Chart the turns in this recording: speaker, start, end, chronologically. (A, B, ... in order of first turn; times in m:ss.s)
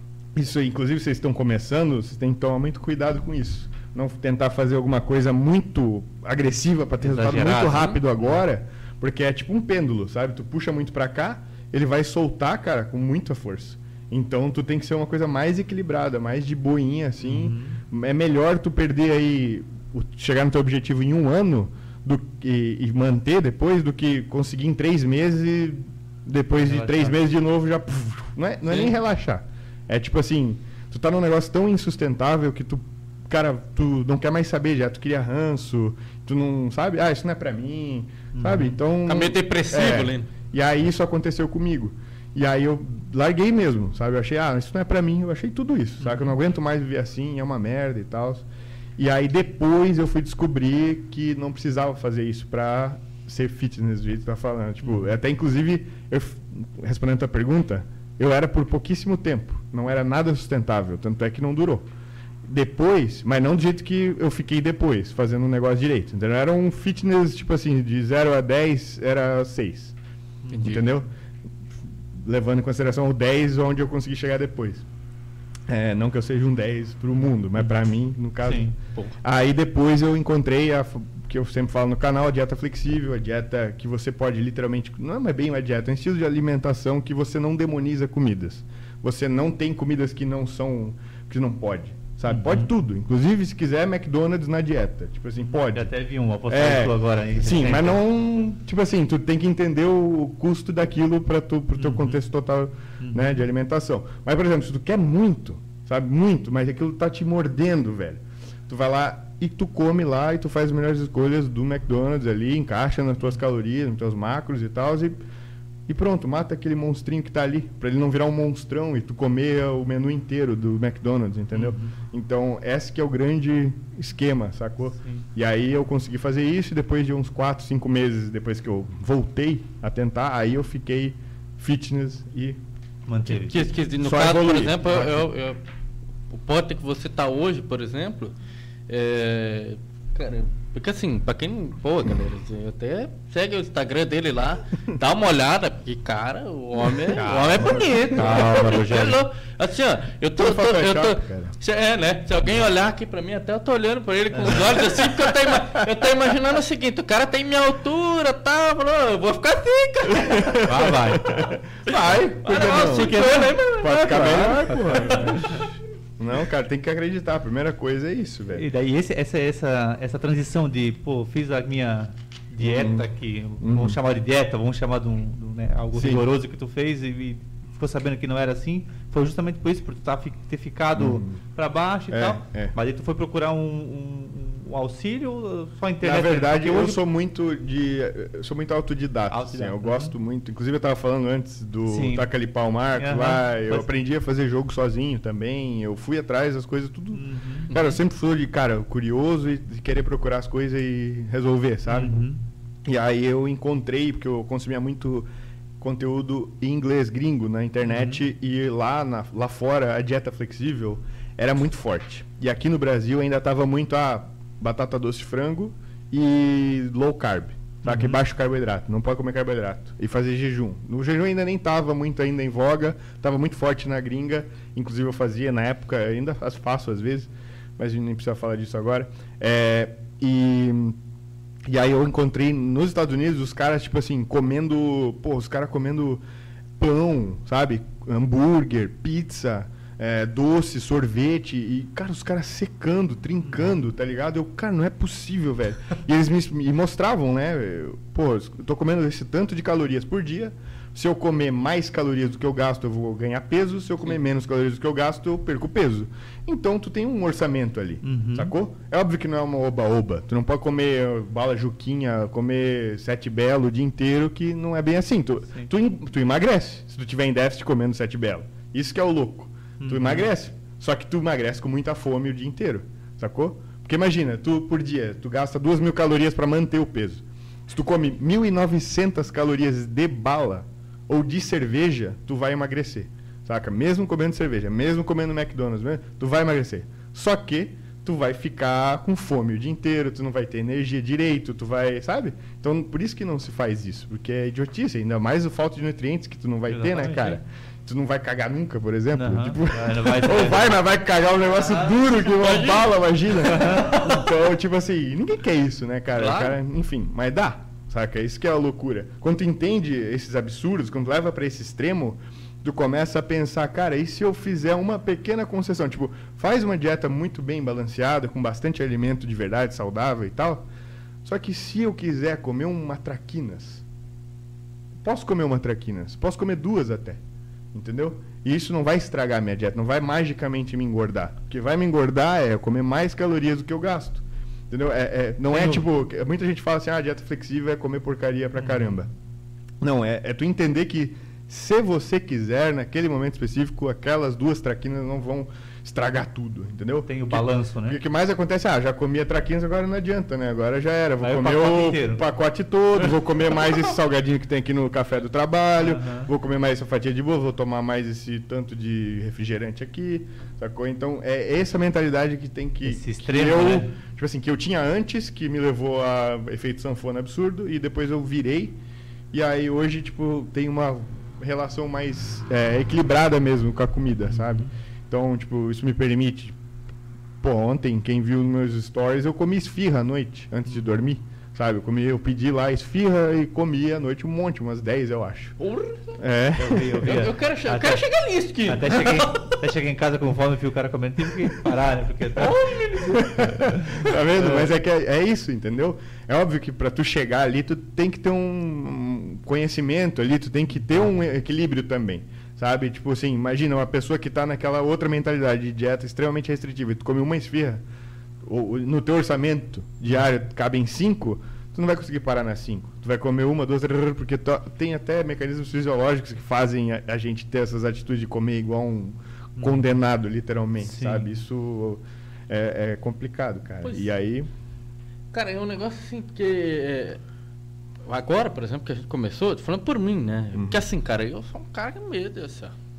0:00.4-0:48.5 A
0:07.0-0:07.9 B
0:07.3-0:08.0 C
0:17.2-0:17.8 B
0:26.6-0:27.2 B
0:38.3-0:38.8 B
0:39.1-0:40.3 C
0:49.0-1:01.9 A
0:54.8-0:55.1 B
1:02.4-1:10.0 A
1:10.5-1:10.9 C
1:10.6-1:11.1 A
1:12.2-1:14.8 A
1:15.7-1:18.7 A
1:18.4-1:18.7 B
1:19.2-1:35.9 A
1:32.3-1:32.7 B
1:35.4-1:38.0 B
1:36.5-1:55.2 A
1:41.8-1:42.2 B
1:43.0-1:43.4 B
1:55.9-2:12.6 A
2:01.5-2:02.0 B
2:05.0-2:05.2 B
2:13.1-2:13.7 B
2:13.3-2:15.6 C
2:14.0-2:15.3 A
2:16.3-2:18.4 C
2:18.9-2:41.0 C
2:27.1-2:28.8 A
2:28.1-2:29.2 B
2:30.4-2:31.5 A
2:34.3-2:34.6 B
2:40.1-2:45.7 A
2:40.6-2:41.4 B
2:41.9-2:45.6 C
2:42.5-2:43.5 B
2:46.2-2:48.7 A
2:48.6-3:07.0 B
2:52.6-2:53.1 A
2:53.6-2:54.0 A
2:55.9-2:56.3 A
3:01.0-3:01.4 A
3:02.1-3:02.8 A
3:06.0-3:22.2 A
3:09.3-3:10.1 B
3:11.9-3:12.3 B
3:13.0-3:13.9 B
3:17.1-3:17.7 B
3:17.7-3:18.0 C
3:21.9-3:22.4 B
3:22.9-3:25.3 A
3:25.8-3:51.0 A
3:27.8-3:28.2 B
3:37.8-3:38.2 B
3:51.7-3:56.2 A
3:56.8-5:20.7 A
4:03.4-4:03.8 B
4:18.0-4:18.5 B
4:29.8-4:30.3 B
4:56.7-4:57.4 B
4:59.1-5:00.8 B
5:01.6-5:02.0 B
5:02.2-5:03.1 C
5:03.4-5:04.3 B
5:06.2-5:06.6 C
5:21.2-5:23.8 A
5:25.0-5:27.2 A
5:27.7-5:39.1 A
5:35.5-5:35.8 B
5:38.6-5:38.9 B
5:39.8-6:08.8 A
5:47.1-5:48.0 B
5:51.2-5:52.2 B
5:55.8-5:56.3 B
6:02.8-6:03.9 B
6:09.3-6:16.6 A
6:14.3-6:14.7 B
6:17.4-6:25.6 A
6:25.6-6:26.2 C
6:26.2-6:27.3 A
6:26.6-6:28.1 B
6:26.9-6:29.5 C
6:28.7-6:32.6 B
6:32.4-6:33.5 C
6:33.1-6:47.8 A
6:33.6-6:34.7 B
6:48.4-7:04.5 A
6:59.6-6:59.8 B
7:00.8-7:01.3 B
7:03.8-7:04.1 C
7:05.3-7:07.2 C
7:08.0-7:12.7 C
7:10.6-7:10.8 A